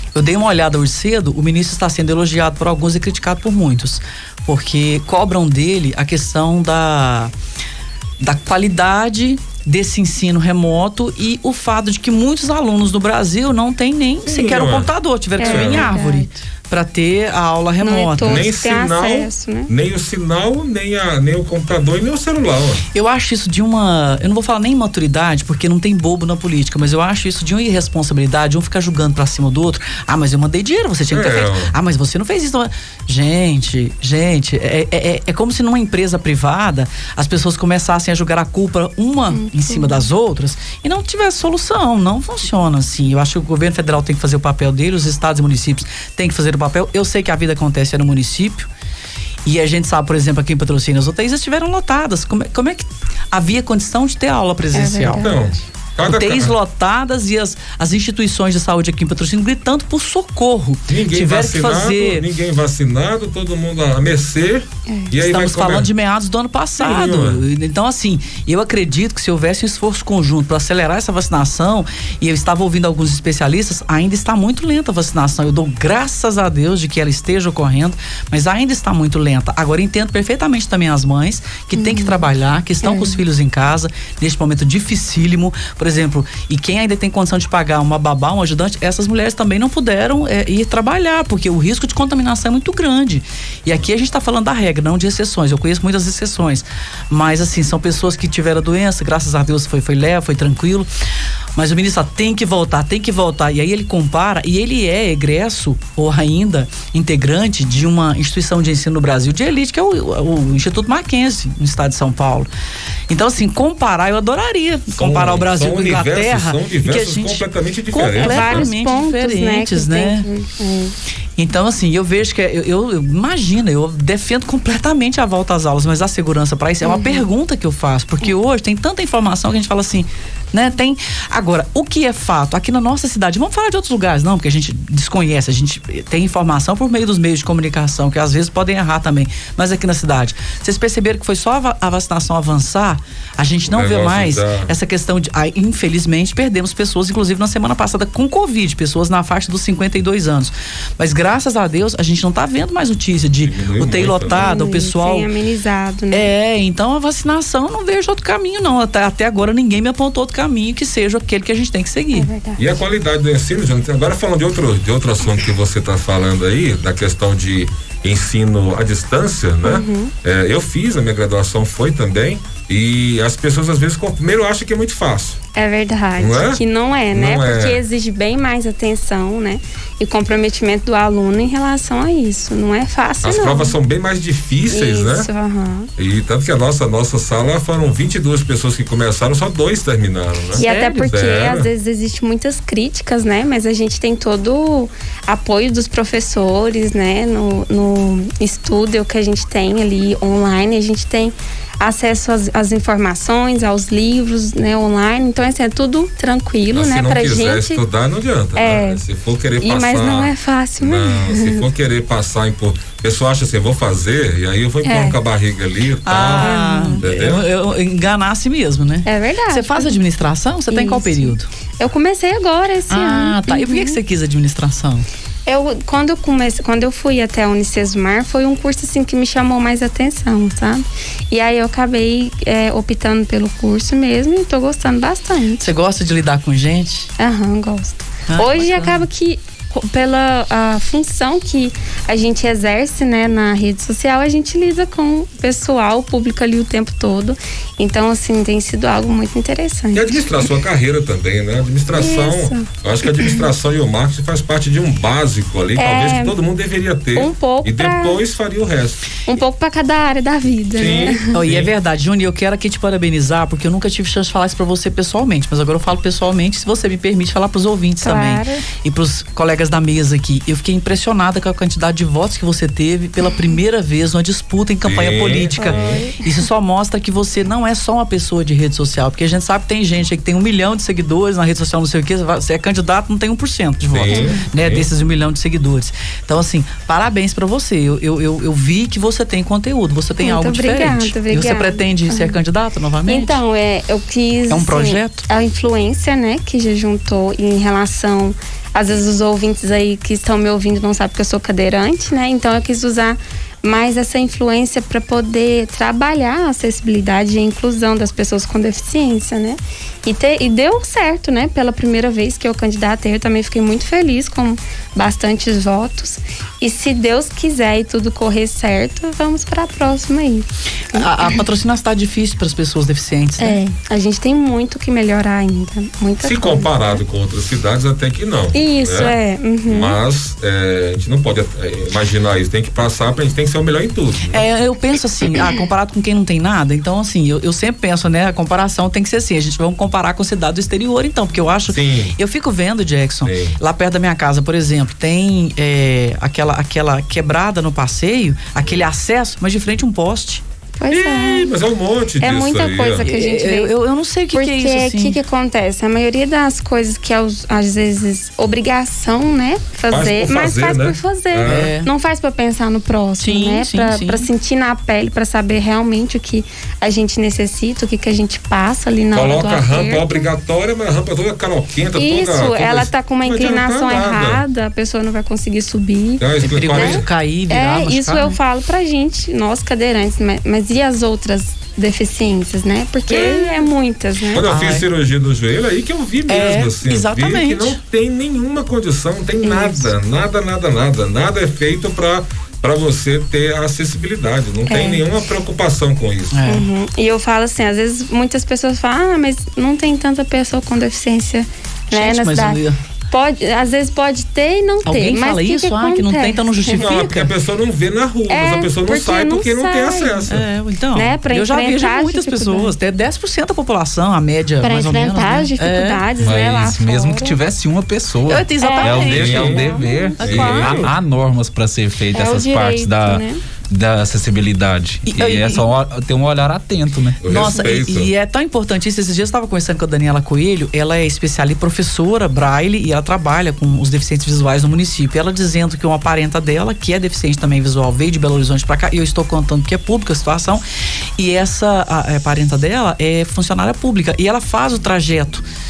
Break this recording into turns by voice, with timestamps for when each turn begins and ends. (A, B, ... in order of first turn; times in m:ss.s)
0:00.2-0:07.3 A
0:08.2-0:18.4 A
0:14.2-0:16.0 B
0:15.4-0:16.3 C
0:17.8-0:19.7 C
0:18.2-0:22.8 B
0:22.9-0:48.7 A
0:31.1-0:31.7 B
0:39.3-0:40.0 C
0:49.5-0:55.2 A
0:54.7-0:55.4 C
0:55.2-0:56.5 B
0:56.1-1:02.2 A
1:00.9-1:05.9 B
1:05.1-1:40.9 A
1:06.8-1:07.4 B
1:21.8-1:22.2 C
1:22.8-1:23.2 C
1:41.6-1:52.5 A
1:53.1-2:00.2 A
1:54.9-1:58.7 B
1:58.2-2:00.9 C
2:01.4-2:35.3 A
2:06.8-2:07.3 C
2:23.7-2:24.7 B
2:33.4-2:34.5 B
2:34.3-2:36.3 C
2:36.1-2:42.3 A
2:42.1-2:42.8 C
2:42.6-2:55.4 B
2:49.6-2:50.1 C
2:55.6-3:03.8 C
2:56.2-2:57.8 B
3:03.2-3:05.3 B
3:04.7-3:05.9 C
3:06.0-3:11.7 B
3:10.5-3:27.8 C
3:10.6-3:11.1 A
3:26.7-3:37.4 B
3:28.6-3:29.0 C
3:29.6-3:31.7 C
3:34.8-3:35.2 C
3:36.1-3:41.5 A
3:36.3-3:37.0 C
3:39.0-3:40.0 C
3:40.7-3:44.0 C
3:42.9-3:45.0 A
3:45.4-3:55.7 C
3:55.6-3:57.1 A
3:57.2-4:10.4 C
3:58.3-3:59.1 A
4:09.9-4:19.0 B
4:11.9-4:13.4 C
4:15.8-4:16.4 C
4:17.2-4:18.2 C
4:19.3-4:21.2 C
4:20.7-4:21.7 B
4:21.3-4:53.4 A
4:28.0-4:28.6 C
4:34.8-4:36.1 B
4:35.6-4:36.3 C
4:43.9-4:44.9 B
4:44.1-4:44.4 C
4:50.2-4:52.4 C
4:53.1-5:21.4 C
4:54.5-4:55.2 A
5:20.9-5:23.6 A
5:23.4-5:27.0 C
5:26.2-5:34.4 B
5:28.5-5:30.0 C
5:34.3-5:50.4 A
5:41.7-5:42.2 B
5:43.2-5:43.6 B
5:50.8-5:51.5 C
5:50.9-5:53.1 B
5:52.2-5:53.7 C
5:53.0-5:55.2 A
5:54.3-6:10.3 C
5:59.9-6:01.7 B
6:01.4-6:01.9 A
6:03.2-6:04.3 A
6:09.1-6:14.4 B
6:12.0-6:24.5 C
6:16.2-6:17.0 B
6:16.4-6:18.4 A
6:23.1-6:23.7 A
6:24.3-6:36.4 B
6:24.4-6:24.9 A
6:26.3-6:27.8 A
6:29.4-6:29.9 C
6:34.7-6:35.0 C
6:36.3-6:36.7 A
6:36.5-6:46.9 C
6:41.9-6:42.8 A
6:44.9-6:47.3 A
6:46.8-6:50.4 B
6:48.3-6:50.3 C
6:50.3-6:56.1 A
6:50.9-6:52.7 C
6:54.6-6:57.4 C
6:56.2-7:07.2 D
6:58.3-7:00.8 A
6:58.6-7:00.9 C
6:59.1-6:59.7 B
7:00.2-7:00.9 B
7:02.1-7:03.4 C
7:05.1-7:05.7 A
7:07.2-7:08.1 B
7:07.3-7:20.6 A
7:21.2-7:25.4 A